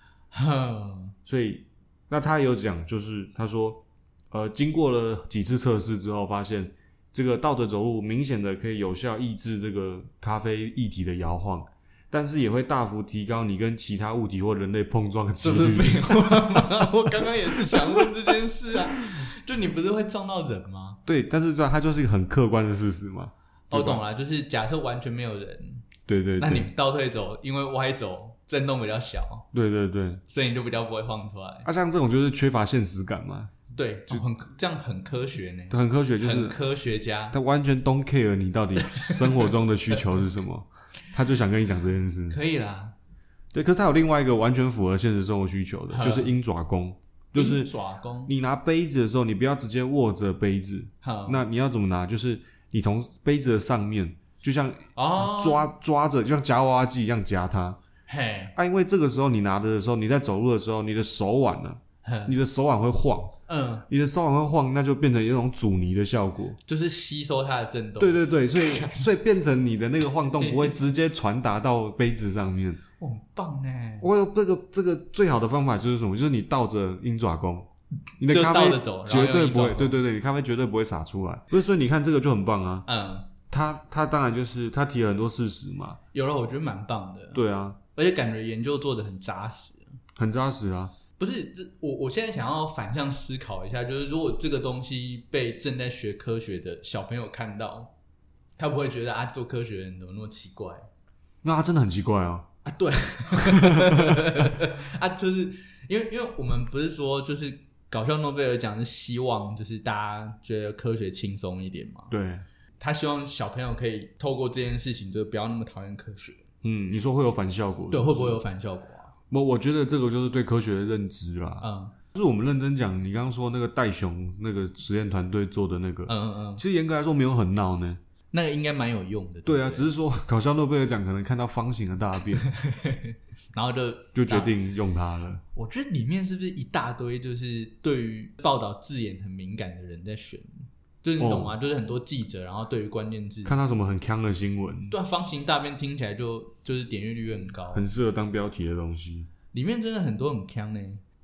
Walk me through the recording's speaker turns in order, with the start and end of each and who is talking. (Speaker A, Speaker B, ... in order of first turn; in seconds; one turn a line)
Speaker A: 0.3-1.1
Speaker B: 1.2-18.4
Speaker A: 15.4-21.0
Speaker B: 21.1-24.0
Speaker A: 23.7-29.5
Speaker B: 26.1-26.7
Speaker B: 29.5-30.2
Speaker A: 30.3-31.7
Speaker B: 31.6-33.5
Speaker A: 33.7-37.4
Speaker B: 35.7-36.6
Speaker B: 37.3-42.4
Speaker A: 38.8-39.5
Speaker A: 42.3-42.9
Speaker B: 43.5-47.7
Speaker A: 45.9-46.3
Speaker A: 47.4-48.3
Speaker B: 48.3-57.8
Speaker A: 51.0-51.4
Speaker A: 55.0-55.7
Speaker A: 58.1-58.5
Speaker B: 58.5-63.3
Speaker A: 62.0-62.4
Speaker A: 63.5-63.9
Speaker B: 63.9-66.6
Speaker A: 66.7-69.1
Speaker B: 68.0-72.8
Speaker A: 70.4-70.8
Speaker A: 73.0-74.1
Speaker B: 74.0-77.7
Speaker B: 78.2-82.8
Speaker A: 78.2-80.0
Speaker A: 82.9-83.3
Speaker B: 83.5-86.0
Speaker A: 86.1-87.4
Speaker B: 87.3-87.8
Speaker A: 87.9-89.9
Speaker B: 90.2-90.9
Speaker A: 91.2-97.9
Speaker A: 98.6-100.8
Speaker B: 101.4-102.5
Speaker A: 102.6-112.1
Speaker B: 103.3-104.5
Speaker B: 112.1-112.4
Speaker A: 112.8-116.4
Speaker B: 116.6-118.4
Speaker A: 117.9-119.1
Speaker B: 119.3-128.0
Speaker A: 121.6-121.9
Speaker A: 126.1-126.6
Speaker A: 128.3-129.9
Speaker B: 129.4-132.4
Speaker A: 132.4-134.5
Speaker B: 134.1-135.4
Speaker A: 135.5-143.6
Speaker B: 141.2-141.6
Speaker B: 143.4-144.9
Speaker A: 144.9-147.9
Speaker B: 147.7-149.3
Speaker A: 149.5-151.0